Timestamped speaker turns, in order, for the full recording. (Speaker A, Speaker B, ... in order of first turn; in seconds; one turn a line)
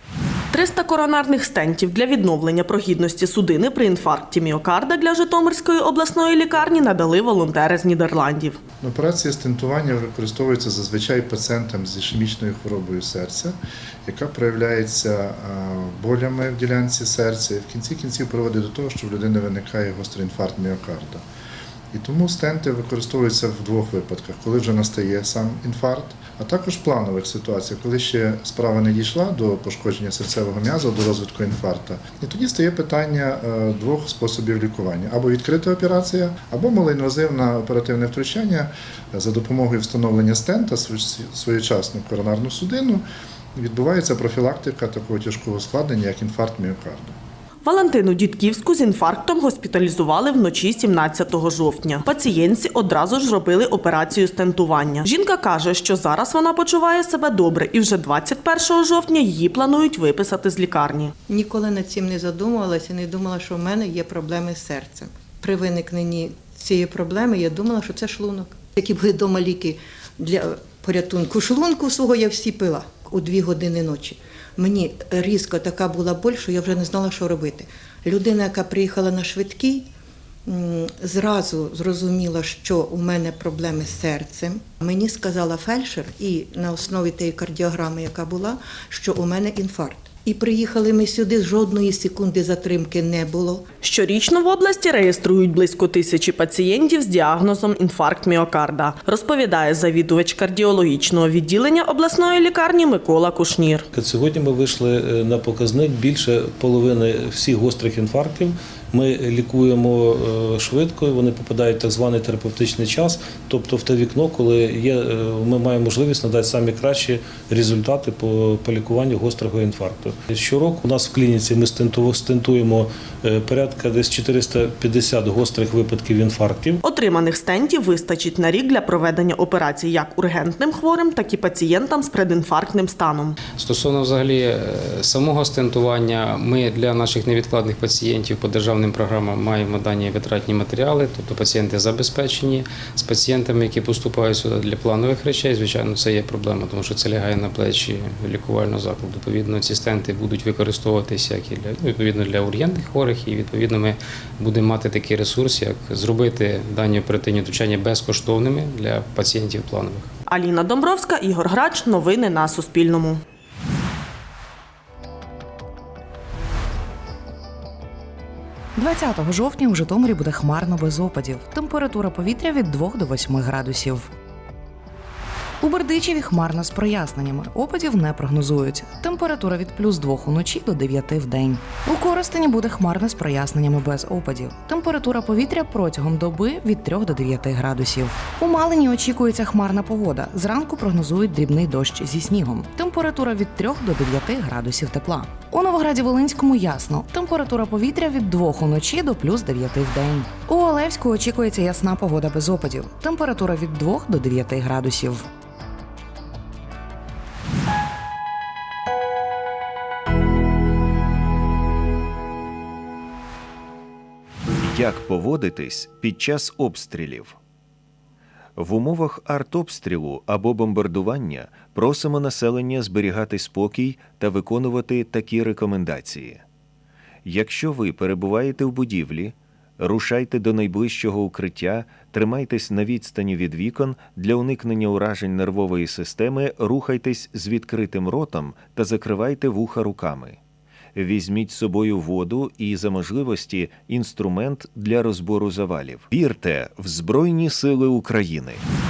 Speaker A: 0.5-8.6
Speaker B: 8.8-21.2
Speaker B: 21.9-47.2
Speaker A: 47.6-61.1
Speaker C: 61.3-79.9
Speaker C: 80.5-93.7
Speaker A: 93.8-103.9
Speaker D: 103.9-126.8
Speaker A: 126.8-133.4
Speaker E: 133.6-160.1
Speaker A: 160.3-163.2
Speaker F: 168.8-174.1
Speaker F: 175.6-205.3
Speaker G: 214.7-217.4
Speaker G: 218.6-226.4
Speaker G: 227.2-240.4
Speaker G: 240.9-248.6